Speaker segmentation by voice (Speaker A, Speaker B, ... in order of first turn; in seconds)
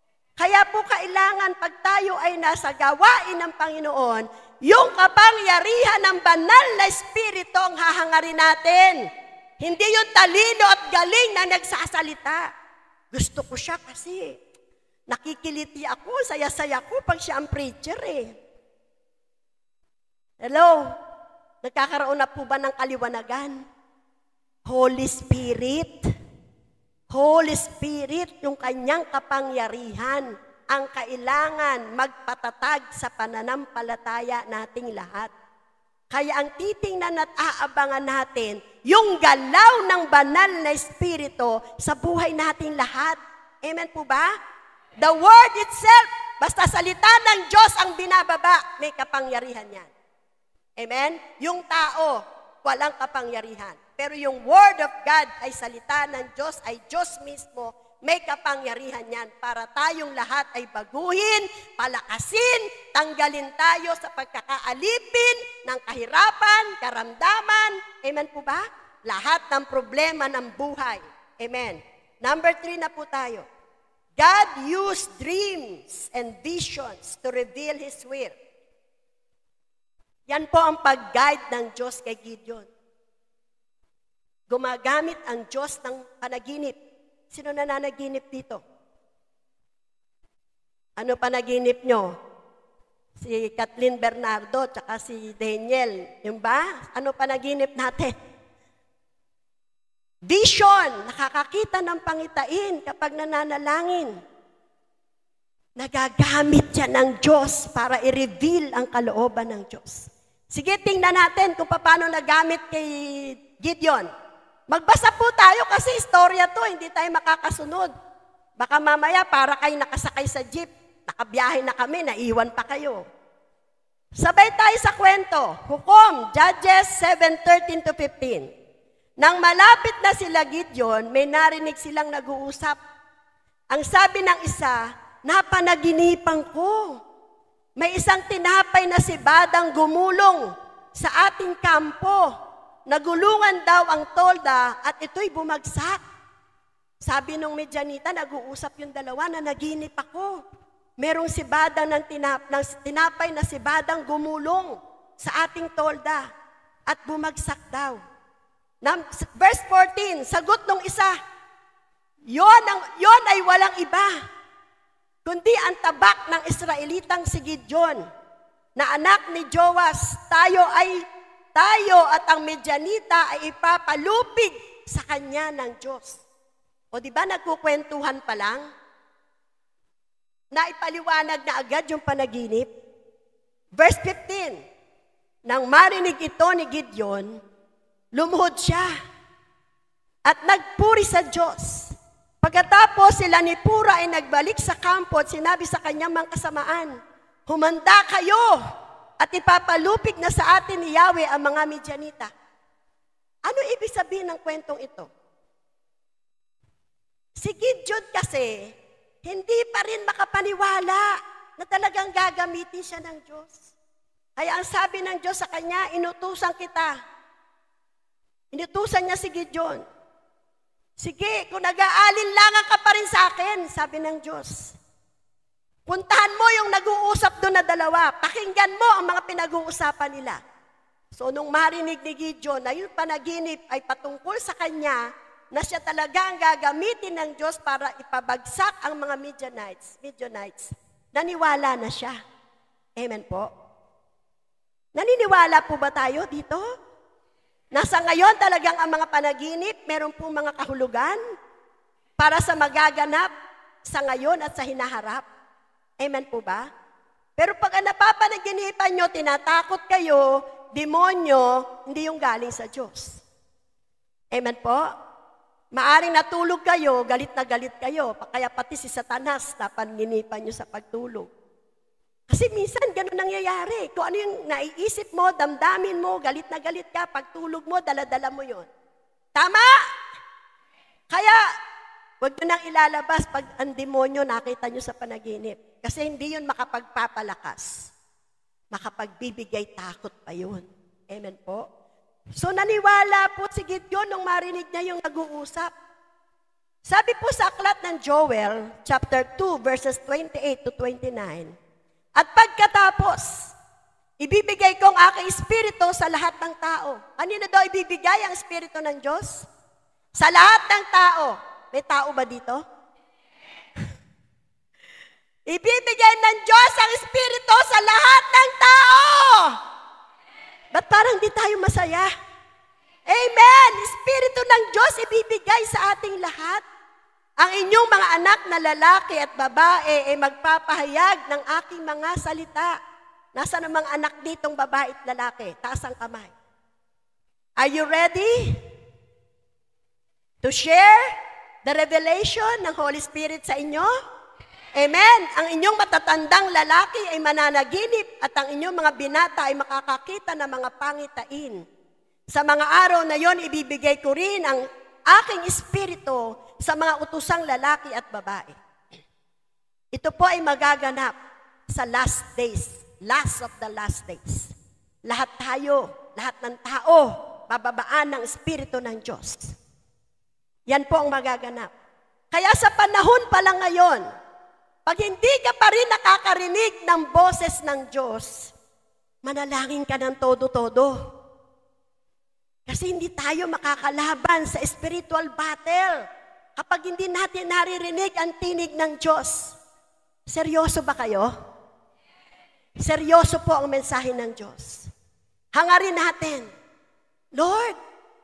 Speaker A: 0.4-9.1, 9.6-12.5, 13.1-14.3, 15.1-18.3, 20.4-20.9, 21.6-23.6, 24.6-26.0, 27.1-35.3, 36.1-44.3, 45.0-49.9, 50.8-73.4, 74.2-78.3, 80.3-82.7, 84.5-86.8, 87.3-88.6, 91.0-92.1, 93.2-98.1, 100.2-104.2, 105.8-114.1, 114.7-117.9, 118.6-123.0, 124.2-128.5, 129.2-132.8, 133.7-137.0, 137.8-142.3, 142.9-146.0, 147.0-150.4, 151.0-156.2, 156.9-158.0, 158.8-161.1, 162.3-164.1, 165.2-168.0, 168.8-176.2, 176.9-178.6, 180.5-182.7, 183.8-184.6, 185.4-187.4, 188.1-188.9, 190.2-196.9, 197.5-198.6, 199.2-202.3, 203.4-205.1, 207.4-208.7, 209.2-213.7, 214.4-216.9, 218.5-219.8, 221.0-224.7, 225.9-230.4, 231.1-235.0, 235.5-242.1, 242.9-243.5, 244.9-246.6, 247.7-251.2, 252.2-253.3, 253.8-255.2, 256.0-256.7, 257.4-263.2, 264.3-264.8, 265.7-271.3, 272.3-278.7, 279.4-279.7, 281.1-281.4, 282.2-287.9, 288.7-291.6, 292.4-295.7, 296.9-301.5, 302.1-303.5, 304.2-309.4, 310.1-312.6, 315.5-319.6, 320.7-322.1, 323.1-326.6, 327.4-332.8, 333.3-336.3, 337.6-338.6, 340.4-341.1, 341.6-343.9, 344.8-351.6, 352.3-358.5, 359.9-361.1, 361.7-364.5, 365.0-369.5, 370.7-371.7, 372.3-374.0, 374.9-378.5, 379.2-381.1, 382.7-386.0, 386.6-389.5, 390.3-391.3, 392.8-394.9, 395.5-396.5, 397.3-397.8